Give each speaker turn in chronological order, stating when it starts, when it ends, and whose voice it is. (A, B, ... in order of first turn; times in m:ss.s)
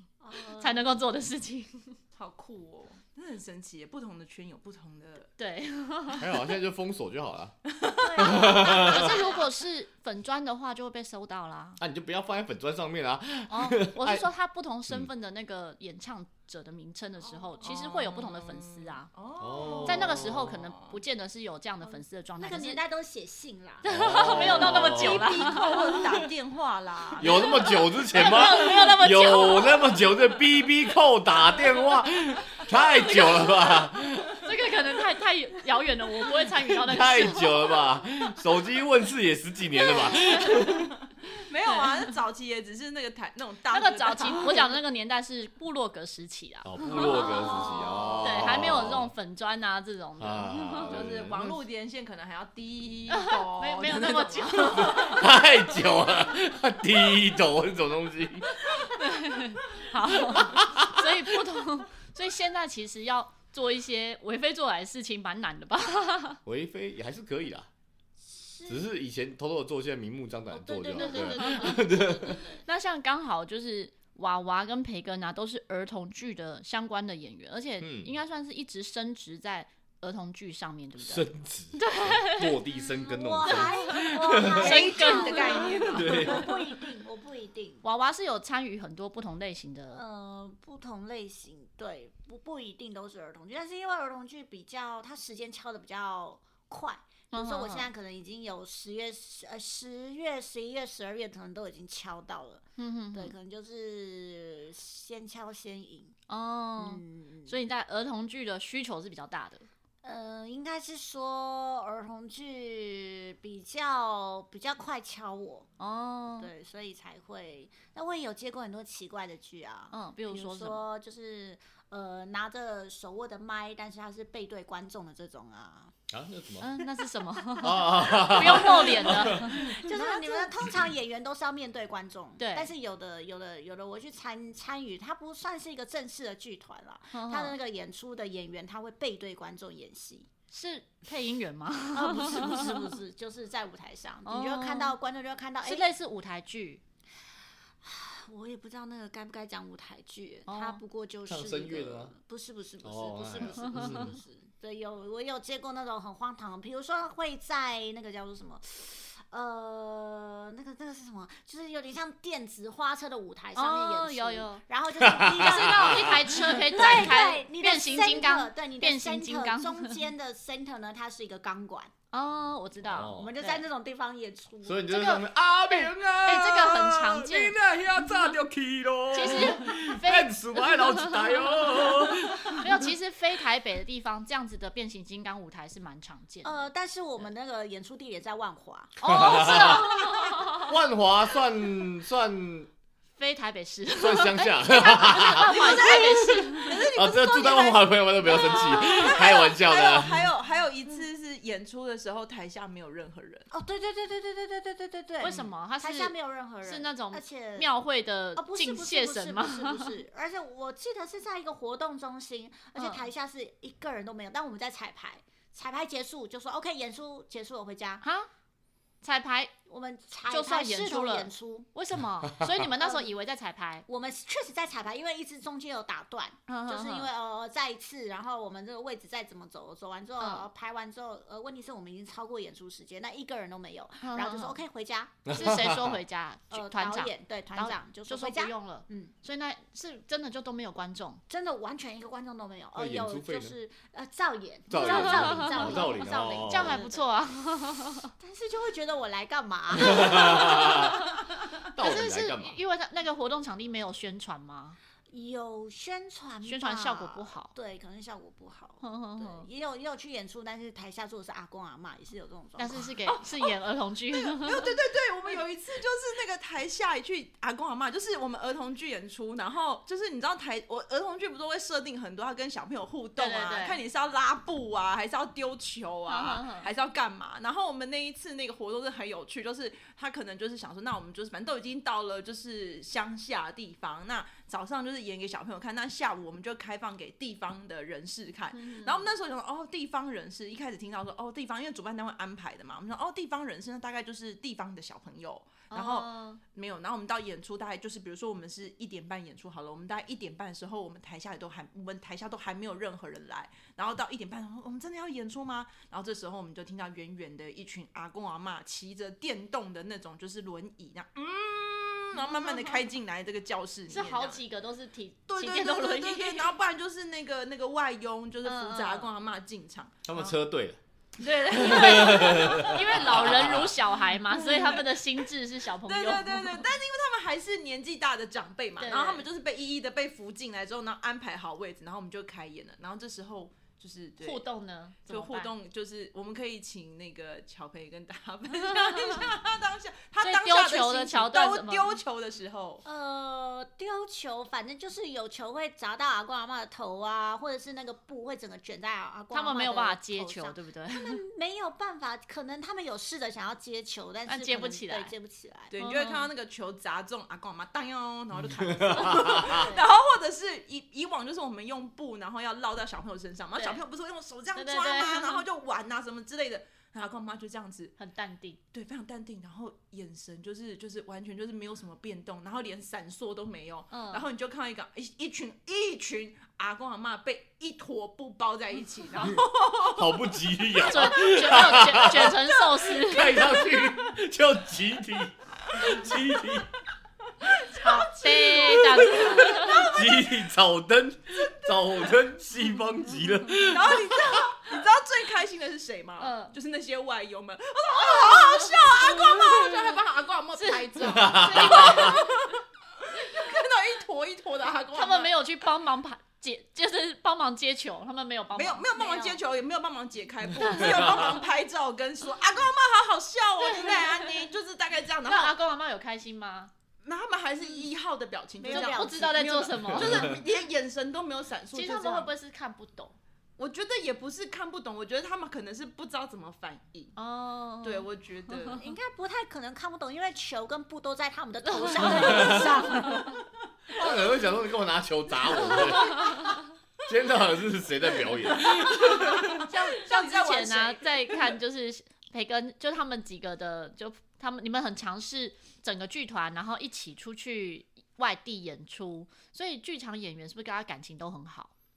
0:00.2-0:00.9 A
0:00.4-0:02.0 B
0:02.2-0:05.3 C
0:05.4-0:06.3 B
0:06.2-0:07.6 D
0:07.7-0:08.2 C
0:08.0-0:09.5 A
0:08.2-0:09.2 D
0:08.3-0:11.8 B
0:11.8-0:14.3 D
0:13.5-0:19.1 B
0:17.6-0:21.0 C
0:19.4-0:20.6 D
0:19.8-0:22.8 B
0:22.4-0:23.9 A
0:23.8-0:26.0 B
0:23.9-0:25.6 D
0:24.4-0:27.8 C
0:27.2-0:34.4 D
0:28.1-0:29.8 B
0:33.1-0:33.4 B
0:34.4-0:37.8 B
0:36.7-0:40.9 D
0:40.1-0:40.6 B
0:40.5-0:44.7 C
0:41.7-0:42.1 B
0:43.7-0:47.6 B
0:46.6-0:49.1 D
0:47.2-0:48.1 A
0:48.2-0:51.0 B
0:50.2-0:51.6 D
0:50.8-0:55.3 C
0:53.1-0:55.3 B
0:54.7-0:58.6 D
0:58.9-1:06.4 B
1:00.3-1:01.1 D
1:06.4-1:07.7 D
1:08.2-1:08.9 A
1:08.7-1:12.5 D
1:10.8-1:22.5 B
1:10.8-1:11.5 A
1:17.8-1:18.1 D
1:21.0-1:24.9 D
1:22.7-1:27.8 A
1:24.6-1:26.4 B
1:24.6-1:26.5 C
1:25.9-1:26.6 D
1:27.8-1:30.0 B
1:29.9-1:46.2 A
1:37.3-1:37.9 B
1:42.8-1:43.3 B
1:46.3-1:49.7 B
1:46.8-1:47.6 A
1:50.0-1:55.7 A
1:55.8-1:56.5 B
1:56.4-2:06.0 A
1:59.9-2:00.8 B
2:06.1-2:06.8 D
2:06.6-2:10.4 B
2:07.6-2:20.3 A
2:07.6-2:09.9 D
2:12.4-2:12.7 B
2:17.1-2:17.6 B
2:20.5-2:23.0 B
2:21.9-2:25.9 A
2:24.2-2:25.0 B
2:25.6-2:26.8 B
2:27.8-2:51.9 A
2:30.5-2:30.8 B
2:31.3-2:32.1 D
2:32.8-2:34.2 D
2:43.6-2:44.6 B
2:45.0-2:46.6 D
2:45.3-2:50.0 B
2:52.1-2:53.6 B
2:52.8-2:53.4 D
2:53.1-2:54.9 A
2:54.6-3:02.9 D
2:54.9-2:57.6 B
2:59.1-3:06.7 B
3:06.4-3:09.6 A
3:09.0-3:10.7 B
3:09.1-3:12.7 D
3:13.2-3:16.8 B
3:14.0-3:16.0 D
3:15.4-3:23.5 C
3:16.9-3:20.3 D
3:23.5-3:27.7 A
3:25.2-3:30.0 B
3:28.4-3:38.0 A
3:32.8-3:33.0 B
3:38.0-3:38.3 B
3:39.0-3:39.6 B
3:39.7-3:41.7 A
3:40.3-3:43.9 B
3:42.8-3:43.1 A
3:43.9-3:55.2 A
3:46.5-3:47.1 B
3:50.2-3:50.5 B
3:54.0-3:54.6 B
3:55.2-3:56.0 D
3:55.3-4:01.2 B
3:56.5-3:59.1 A
4:01.3-4:07.0 A
4:02.8-4:03.6 D
4:04.7-4:06.8 D
4:04.8-4:08.1 B
4:08.2-4:11.0 A
4:09.8-4:11.0 D
4:10.5-4:10.8 B
4:11.6-4:12.6 D
4:11.8-4:14.8 B
4:15.1-4:23.0 A
4:16.4-4:17.5 B
4:18.8-4:19.5 B
4:22.6-4:24.7 B
4:23.1-4:23.5 C
4:24.1-5:14.4 C
4:33.2-4:33.8 B
4:36.1-4:36.7 B
4:48.5-4:49.1 B
4:55.7-4:56.4 B
5:12.2-5:12.8 B
5:13.9-5:16.5 B
5:15.3-5:20.4 C
5:18.4-5:19.1 B
5:20.1-5:20.8 D
5:21.2-5:22.9 C
5:21.5-5:26.6 B
5:21.5-5:23.7 D
5:24.3-5:25.0 C
5:25.9-5:34.4 C
5:28.8-5:29.2 B
5:34.2-5:35.5 B
5:35.1-5:42.8 C
5:38.7-5:39.2 B
5:40.2-5:42.0 B
5:42.8-5:55.7 A
5:49.3-5:51.2 B
5:54.3-5:55.2 B
5:55.7-6:08.0 C
5:55.8-5:56.3 B
5:58.4-5:59.7 D
5:59.5-5:59.8 B
6:03.6-6:03.8 B
6:04.6-6:05.4 B
6:08.0-6:08.6 B
6:08.7-6:21.3 C
6:13.9-6:14.2 B
6:20.0-6:22.4 D
6:20.9-6:23.5 B
6:22.7-6:24.0 C
6:23.0-6:26.7 D
6:25.8-6:26.1 C
6:27.4-6:30.3 C
6:27.8-6:29.9 B
6:29.0-6:34.4 D
6:33.6-6:45.3 C
6:36.2-6:36.6 B
6:38.2-6:38.6 A
6:40.6-6:42.2 B
6:41.1-6:42.2 D
6:44.9-6:49.3 B
6:48.6-6:55.6 C
6:50.6-6:51.3 B
6:50.8-6:51.3 D
6:53.6-6:54.4 B
6:55.3-6:56.7 B
6:57.0-7:02.3 C
6:58.6-6:59.4 A
6:58.7-7:00.4 B
7:00.0-7:00.4 D
7:01.7-7:03.2 B
7:03.6-7:07.2 C
7:07.2-7:08.1 B
7:07.8-7:08.9 C
7:08.7-7:13.4 A
7:11.6-7:13.3 B
7:12.1-7:12.8 D
7:13.9-7:16.5 D
7:15.7-7:16.6 B
7:17.1-7:19.3 D
7:18.6-7:21.5 C
7:19.1-7:31.7 B